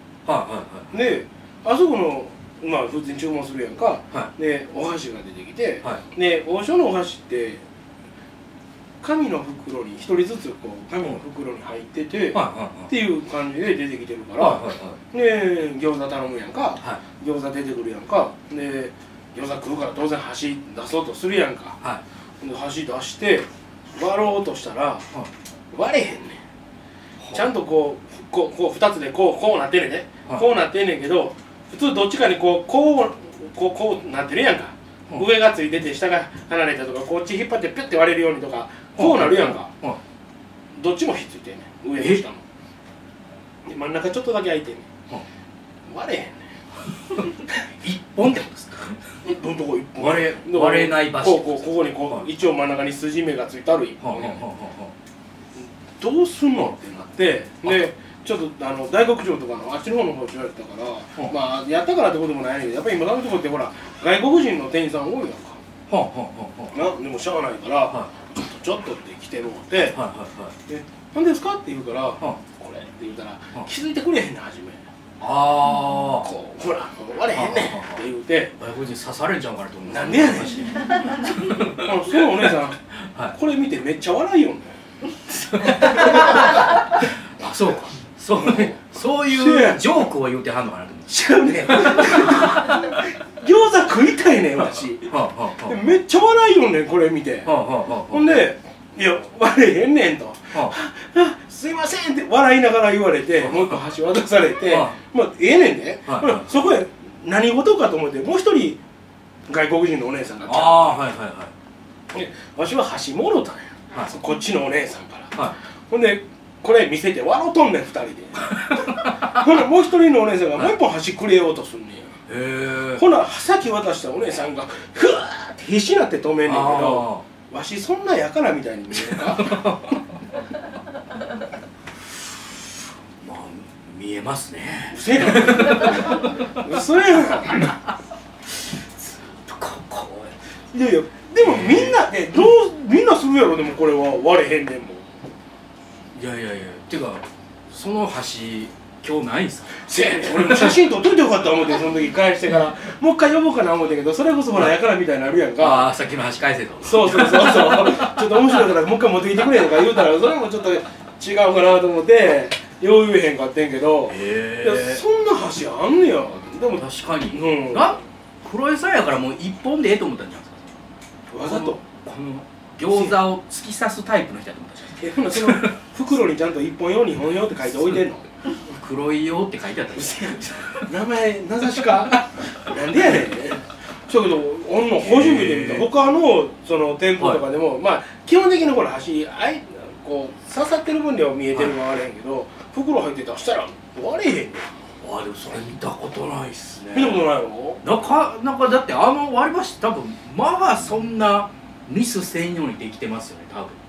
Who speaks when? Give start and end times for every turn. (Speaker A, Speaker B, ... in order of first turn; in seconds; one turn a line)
Speaker A: 0.2-0.9
Speaker B: 0.9-7.6
Speaker B: 9.0-21.8
Speaker A: 12.3-12.9
Speaker A: 14.4-15.0
Speaker B: 22.4-25.1
Speaker B: 25.7-26.4
Speaker A: 27.2-27.5
Speaker B: 27.3-39.7
Speaker A: 39.0-40.0
Speaker B: 40.7-42.4
Speaker A: 42.0-42.2
Speaker B: 43.6-44.9
Speaker B: 45.9-46.5
Speaker A: 47.4-49.0
Speaker B: 49.2-54.4
Speaker A: 50.0-52.2
Speaker A: 54.0-54.9
Speaker B: 56.0-65.6
Speaker A: 65.9-66.8
Speaker B: 66.7-70.0
Speaker A: 69.8-70.5
Speaker B: 70.7-74.8
Speaker A: 75.2-76.3
Speaker B: 76.1-78.5
Speaker A: 77.3-78.0
Speaker A: 78.6-81.9
Speaker B: 79.9-80.9
Speaker B: 81.8-82.8
Speaker A: 82.5-83.3
Speaker B: 83.3-84.8
Speaker A: 85.4-91.1
Speaker B: 85.7-86.8
Speaker B: 88.3-90.1
Speaker B: 91.1-97.5
Speaker A: 91.7-92.9
Speaker A: 95.1-95.8
Speaker A: 97.4-98.4
Speaker B: 98.1-108.8
Speaker A: 103.4-103.8
Speaker A: 104.7-105.0
Speaker A: 106.1-106.5
Speaker B: 109.5-111.0
Speaker A: 110.5-111.5
Speaker B: 112.1-122.1
Speaker A: 118.8-119.2
Speaker A: 122.3-123.0
Speaker B: 122.9-129.6
Speaker A: 126.4-127.2
Speaker A: 129.0-130.0
Speaker A: 133.2-136.7
Speaker B: 134.9-137.7
Speaker A: 138.5-140.3
Speaker B: 140.7-145.1
Speaker A: 141.4-142.0
Speaker A: 146.1-150.8
Speaker B: 149.8-155.9
Speaker A: 155.6-158.6
Speaker B: 156.8-168.0
Speaker A: 164.1-165.0
Speaker A: 166.7-170.8
Speaker B: 171.3-171.8
Speaker A: 171.4-175.8
Speaker B: 172.9-173.2
Speaker B: 175.0-178.3
Speaker A: 177.6-180.9
Speaker B: 179.9-194.7
Speaker A: 185.0-185.9
Speaker A: 195.0-197.3
Speaker B: 196.9-197.8
Speaker A: 197.8-203.8